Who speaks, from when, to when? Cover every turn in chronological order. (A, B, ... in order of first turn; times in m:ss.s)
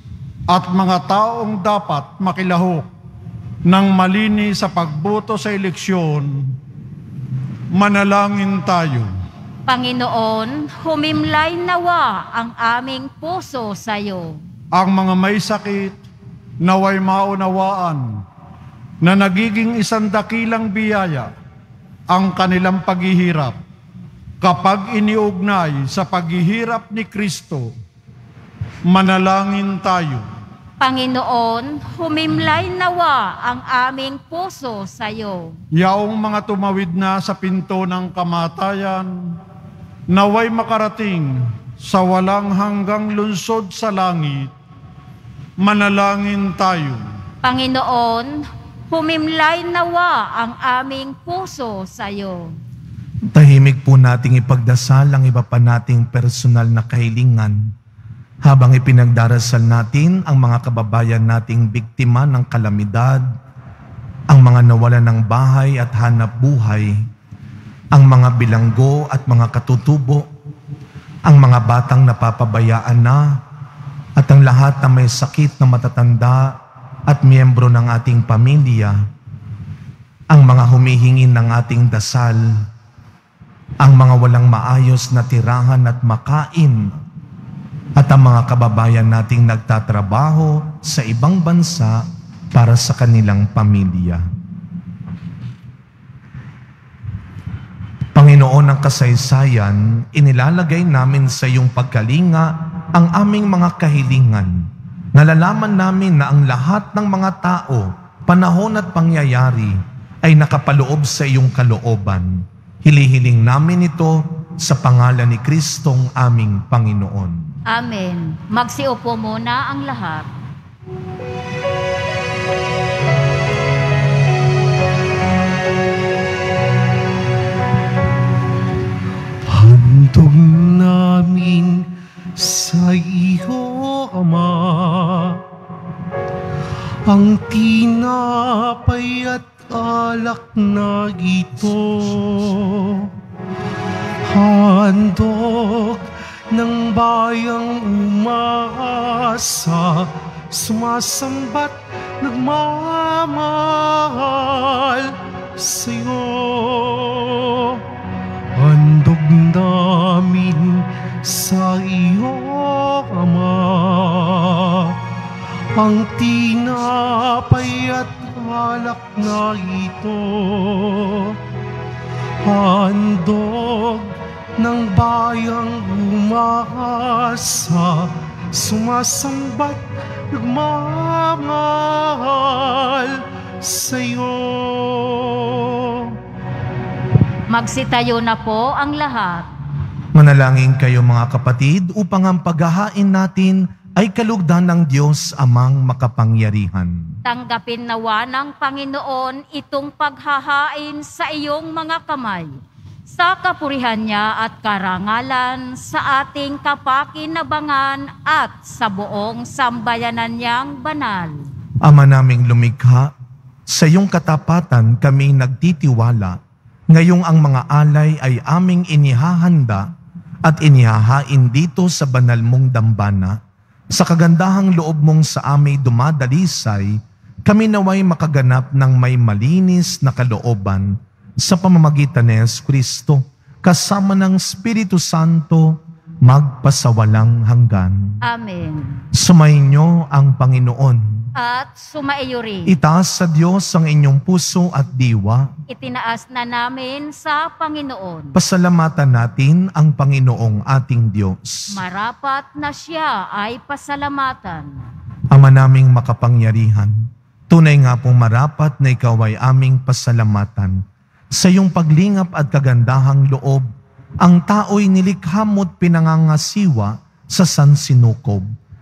0:00.5-0:02.9 A
0:03.7-0:06.6 A
0:07.7-0:09.1 A
0:09.7-0:14.4 B
0:14.7-0:16.0 A
0:16.6-0:18.0 A
0:19.0-0:21.3 A
0:22.1-0:23.6 A
0:24.4-0:27.7 A
0:28.9-0:30.3 A
0:30.8-0:35.6 B
0:35.8-0:39.4 A
0:40.1-0:44.5 A
0:45.6-0:47.0 A
0:47.4-0:52.6 B
0:53.3-0:57.7 C
0:58.4-1:03.2 C
1:04.3-1:07.0 C
1:07.9-1:10.3 C
1:11.2-1:13.4 C
1:14.2-1:19.0 C
1:20.3-1:22.6 C
1:23.8-1:27.0 C
1:28.0-1:34.2 C
1:38.1-1:57.5 C
1:57.7-2:00.3 B
2:09.5-2:15.4 D
2:17.0-2:23.1 D
2:24.2-2:37.8 D
2:38.5-2:45.0 D
2:45.8-2:51.4 D
2:52.4-3:06.2 D
3:07.5-3:09.5 B
3:10.1-3:17.1 C
3:17.2-3:22.6 B
3:23.1-3:31.4 B
3:31.8-3:33.1 C
3:33.7-3:36.4 C
3:36.9-3:39.9 C
3:40.4-3:43.4 C
3:43.9-3:58.2 C
3:58.2-3:59.0 B
3:59.1-4:01.3 C
4:01.3-4:02.8 B
4:02.6-4:05.5 C
4:05.7-4:08.4 B
4:08.3-4:11.8 C
4:11.7-4:14.8 B
4:15.3-4:23.6 C
4:24.2-4:28.5 C